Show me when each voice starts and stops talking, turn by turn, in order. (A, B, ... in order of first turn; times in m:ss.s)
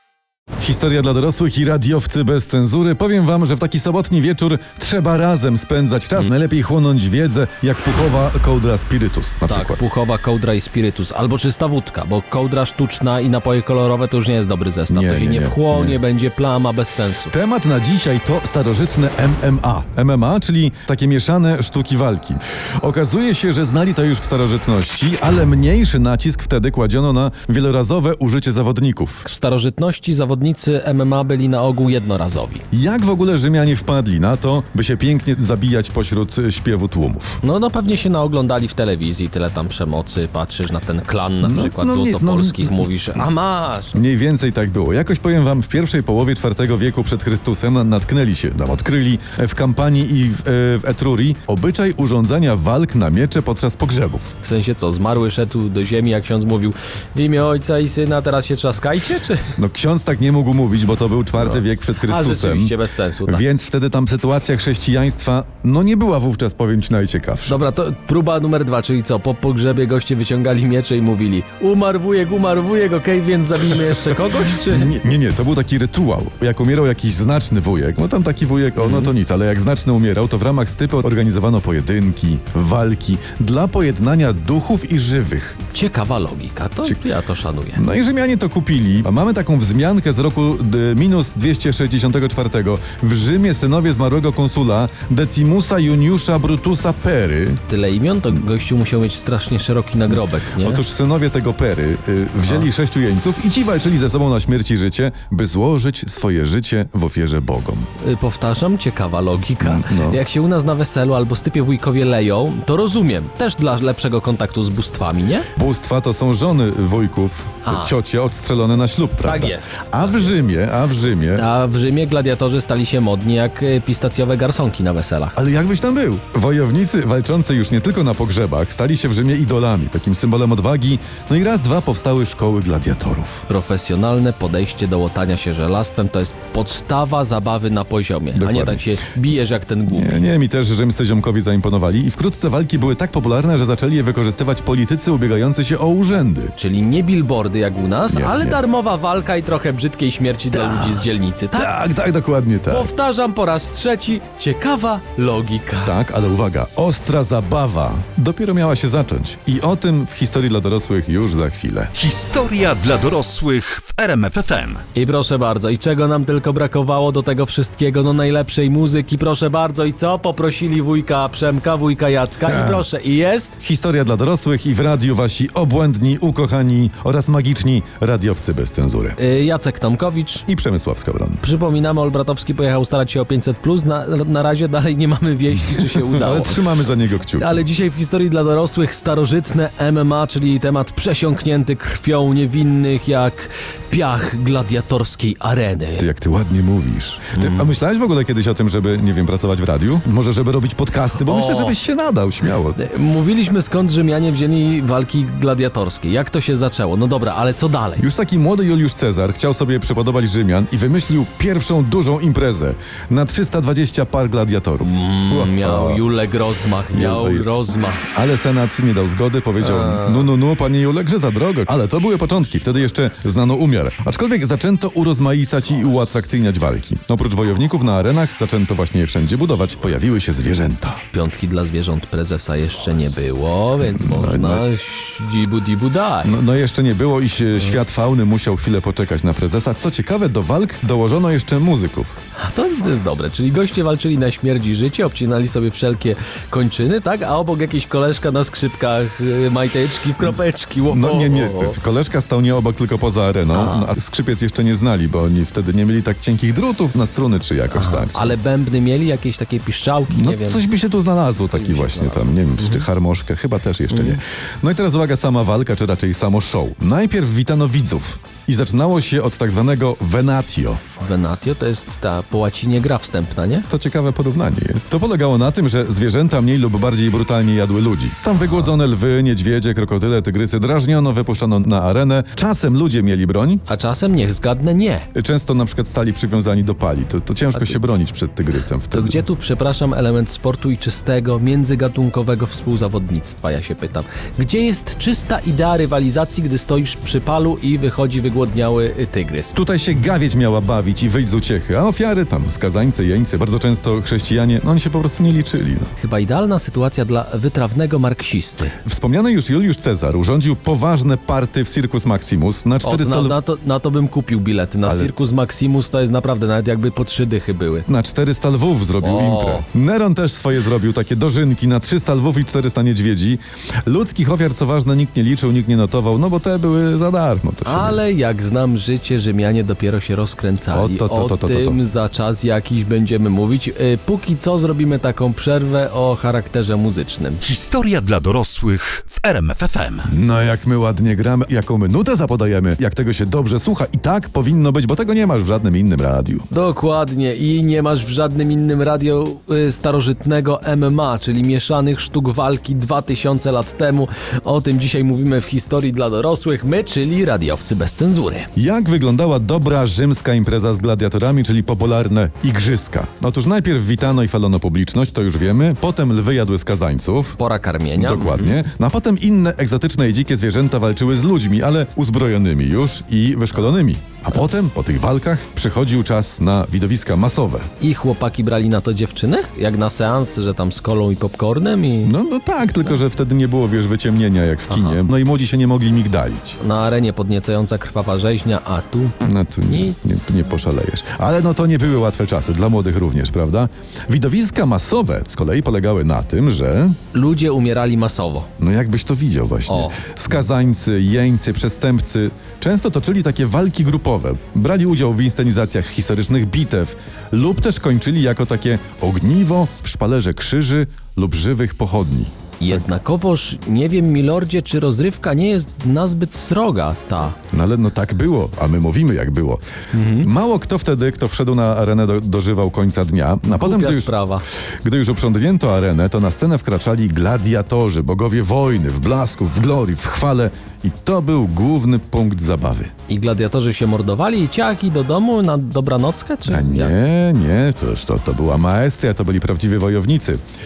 0:00.6-0:09.8 A
0:09.5-0:17.3 B
0:14.9-0:16.0 A
0:17.3-0:29.2 A
0:29.2-0:32.6 B
0:32.7-0:37.4 A
0:37.4-0:44.0 B
0:41.4-0:42.9 A
0:43.9-0:54.3 A
0:54.4-0:59.5 B
0:59.6-1:07.5 A
1:01.5-1:03.4 B
1:07.5-1:14.9 B
1:14.7-1:25.6 A
1:18.8-1:19.1 B
1:25.7-1:27.8 B
1:27.8-1:37.6 A
1:37.7-1:40.8 B
1:40.6-1:47.9 A
1:48.0-1:55.5 B
1:49.6-1:50.2 A
1:55.5-2:01.4 A
1:57.6-1:57.9 B
1:59.2-2:00.4 B
2:01.3-2:05.4 B
2:05.3-2:13.4 A
2:13.5-2:20.2 B
2:18.3-2:18.9 A
2:19.9-2:26.5 A
2:26.6-2:31.8 B
2:28.1-2:28.6 A
2:30.5-2:32.9 A
2:32.7-2:36.0 B
2:35.8-2:41.9 A
2:41.9-2:44.8 C
2:44.9-2:53.6 B
2:52.4-2:52.8 A
2:53.6-2:59.2 A
2:59.2-3:00.4 B
3:00.5-3:01.4 A
3:01.4-3:06.6 B
3:05.9-3:07.6 A
3:07.3-3:16.1 B
3:16.0-3:22.8 A
3:17.4-3:17.6 B
3:21.2-3:21.8 B
3:22.7-3:28.1 B
3:28.0-3:36.0 A
3:34.8-3:38.0 B
3:36.9-3:37.6 A
3:38.1-3:51.0 A
3:39.6-3:40.3 B
3:51.1-3:56.3 B
3:53.9-3:54.6 A
3:56.2-4:02.1 A
4:02.3-4:11.8 B
4:10.9-4:18.4 A
4:13.5-4:13.9 B
4:17.7-4:20.6 B
4:20.1-4:30.8 A
4:21.5-4:22.9 B
4:23.9-4:24.2 B
4:31.0-4:33.7 B
4:33.7-4:43.6 A
4:43.7-4:45.1 B
4:45.1-4:49.2 A
4:48.9-4:59.5 B
4:59.5-5:05.9 A
5:06.0-5:08.8 B
5:08.8-5:13.4 A
5:12.8-5:17.8 B
5:14.8-5:15.2 A
5:17.9-5:28.0 A
5:19.0-5:19.6 B
5:27.6-5:37.4 B
5:30.7-5:31.8 A
5:37.4-5:40.1 C
5:40.0-5:46.5 A
5:46.5-5:58.5 B
5:58.6-6:07.4 A
6:07.4-6:08.6 B
6:08.0-6:17.7 A
6:17.8-6:22.1 B
6:22.0-6:26.6 A
6:24.7-6:25.0 B
6:26.6-6:30.1 B
6:29.2-6:37.0 A
6:37.1-6:38.5 B
6:38.6-6:52.9 A
6:39.7-6:40.0 B
6:52.6-6:57.4 B
6:57.5-6:59.6 A
6:59.9-7:00.3 B
7:00.2-7:04.1 A
7:03.5-7:04.4 B
7:04.8-7:12.9 A
7:13.1-7:16.9 B
7:16.4-7:20.4 A